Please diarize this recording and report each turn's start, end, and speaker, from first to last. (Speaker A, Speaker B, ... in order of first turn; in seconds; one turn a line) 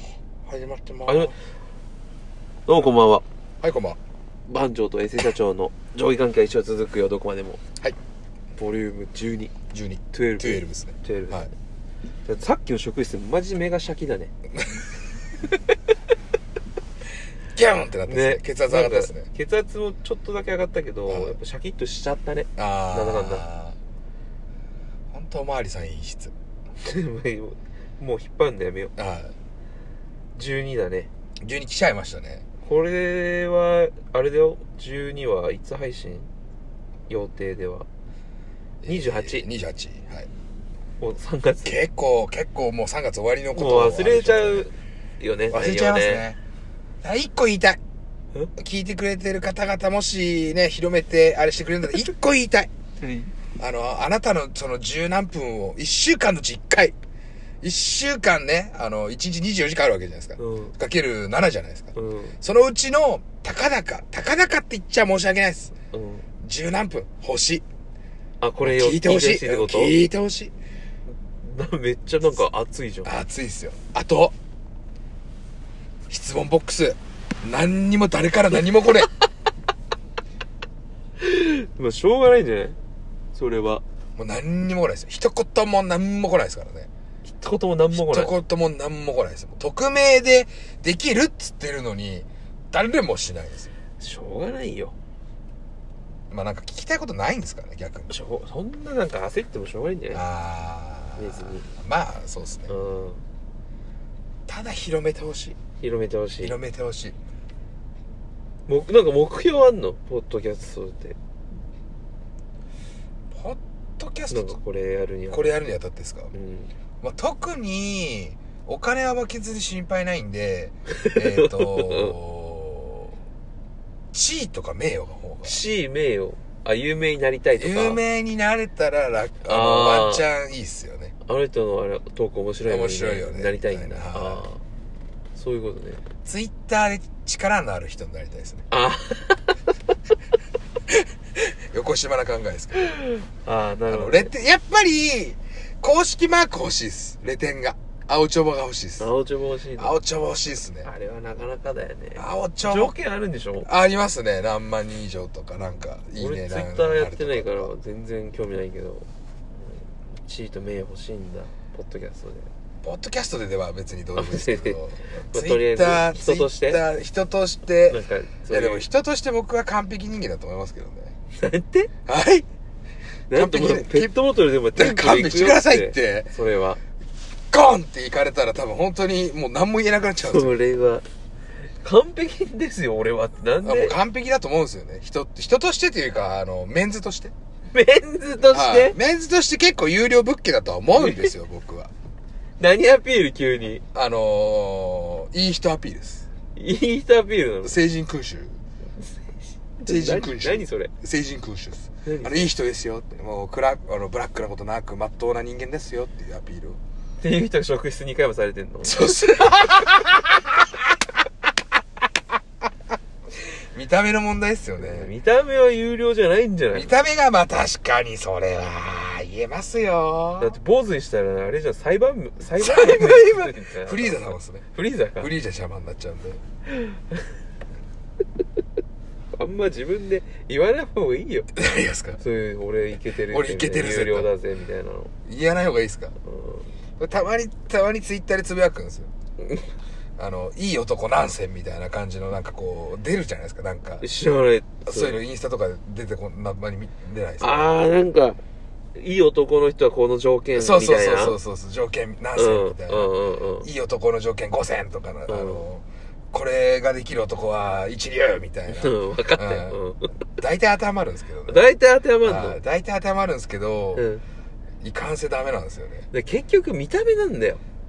Speaker A: 0.5-1.3
Speaker B: 1.1-1.3
Speaker B: 2.7-3.2
Speaker A: 3.6-4.0
Speaker B: 4.5-7.6
Speaker B: 8.6-9.5
Speaker A: 9.7-11.5
Speaker B: 10.1-11.5
Speaker B: 12.2-14.3
Speaker A: 17.5-19.3
Speaker B: 18.1-23.4
Speaker A: 21.1-21.4
Speaker A: 22.6-23.8
Speaker A: 25.1-26.3
Speaker B: 26.8-28.9
Speaker A: 29.0-29.3
Speaker B: 30.4-31.1
Speaker A: 31.4-32.4
Speaker B: 32.6-36.3
Speaker B: 37.1-37.9
Speaker A: 38.8-40.3
Speaker B: 38.9-39.5
Speaker B: 41.0-41.8
Speaker A: 41.6-44.7
Speaker B: 43.5-46.2
Speaker A: 45.5-46.4
Speaker A: 47.0-47.8
Speaker A: 48.6-52.7
Speaker B: 53.0-53.3
Speaker A: 53.6-57.0
Speaker A: 57.6-65.7
Speaker B: 60.4-60.7
Speaker B: 62.0-62.4
Speaker B: 65.9-66.2
Speaker A: 66.4-67.6
Speaker B: 68.4-70.0
Speaker A: 68.6-70.5
Speaker B: 71.4-73.1
Speaker A: 73.0-74.3
Speaker A: 76.1-79.1
Speaker B: 81.2-82.8
Speaker B: 83.3-83.8
Speaker A: 84.2-86.9
Speaker B: 87.3-88.3
Speaker A: 87.9-93.7
Speaker B: 94.0-95.0
Speaker A: 96.3-98.1
Speaker B: 98.1-100.2
Speaker A: 100.1-102.8
Speaker B: 101.2-101.7
Speaker B: 102.7-103.2
Speaker A: 104.5-105.6
Speaker B: 105.8-106.6
Speaker A: 106.4-107.2
Speaker B: 108.7-111.2
Speaker A: 113.3-114.6
Speaker B: 114.3-115.6
Speaker A: 115.3-116.3
Speaker B: 116.3-116.7
Speaker A: 117.0-123.1
Speaker B: 121.0-122.1
Speaker A: 124.1-125.6
Speaker B: 125.4-128.0
Speaker A: 127.6-131.1
Speaker B: 129.4-130.2
Speaker B: 131.2-134.6
Speaker A: 132.7-134.5
Speaker B: 135.3-136.0
Speaker A: 136.2-138.6
Speaker B: 138.7-139.7
Speaker A: 140.9-143.0
Speaker B: 143.2-144.3
Speaker A: 143.9-149.1
Speaker B: 149.0-150.0
Speaker A: 149.8-150.9
Speaker B: 150.8-153.7
Speaker A: 152.2-152.9
Speaker A: 153.6-157.7
Speaker B: 156.2-159.1
Speaker B: 159.6-162.5
Speaker A: 162.8-171.1
Speaker B: 164.2-164.8
Speaker B: 165.3-166.8
Speaker B: 167.9-168.9
Speaker B: 171.3-171.9
Speaker A: 172.1-172.5
Speaker B: 173.3-176.8
Speaker A: 173.3-174.1
Speaker A: 174.8-176.3
Speaker A: 177.5-180.6
Speaker B: 180.2-181.0
Speaker B: 181.8-184.0
Speaker A: 183.6-187.3
Speaker B: 187.7-189.0
Speaker A: 188.5-191.9
Speaker B: 190.9-191.3
Speaker B: 192.6-193.8
Speaker A: 193.9-196.3
Speaker B: 196.6-197.8
Speaker A: 197.6-198.6
Speaker B: 199.8-200.9
Speaker A: 199.8-206.8
Speaker B: 202.1-202.5
Speaker B: 207.2-209.1
Speaker A: 208.8-210.6
Speaker A: 213.7-215.1
Speaker B: 214.8-217.0
Speaker A: 216.7-220.5
Speaker B: 220.4-225.3
Speaker A: 222.6-224.7
Speaker A: 225.2-226.4
Speaker B: 226.7-227.2
Speaker B: 229.3-231.5
Speaker A: 231.6-232.2
Speaker B: 232.2-235.1
Speaker A: 233.3-234.3
Speaker A: 235.3-236.1
Speaker B: 236.3-236.7
Speaker A: 237.0-239.1
Speaker A: 240.2-244.1
Speaker B: 244.0-245.2
Speaker A: 244.9-247.8
Speaker B: 247.4-248.4
Speaker B: 249.0-251.4
Speaker A: 250.6-259.8
Speaker B: 252.4-253.7
Speaker B: 255.3-255.7
Speaker B: 258.7-260.1
Speaker A: 260.4-261.7
Speaker B: 261.5-262.6
Speaker A: 262.2-264.1
Speaker B: 263.9-264.2
Speaker A: 264.8-266.1
Speaker B: 266.1-267.6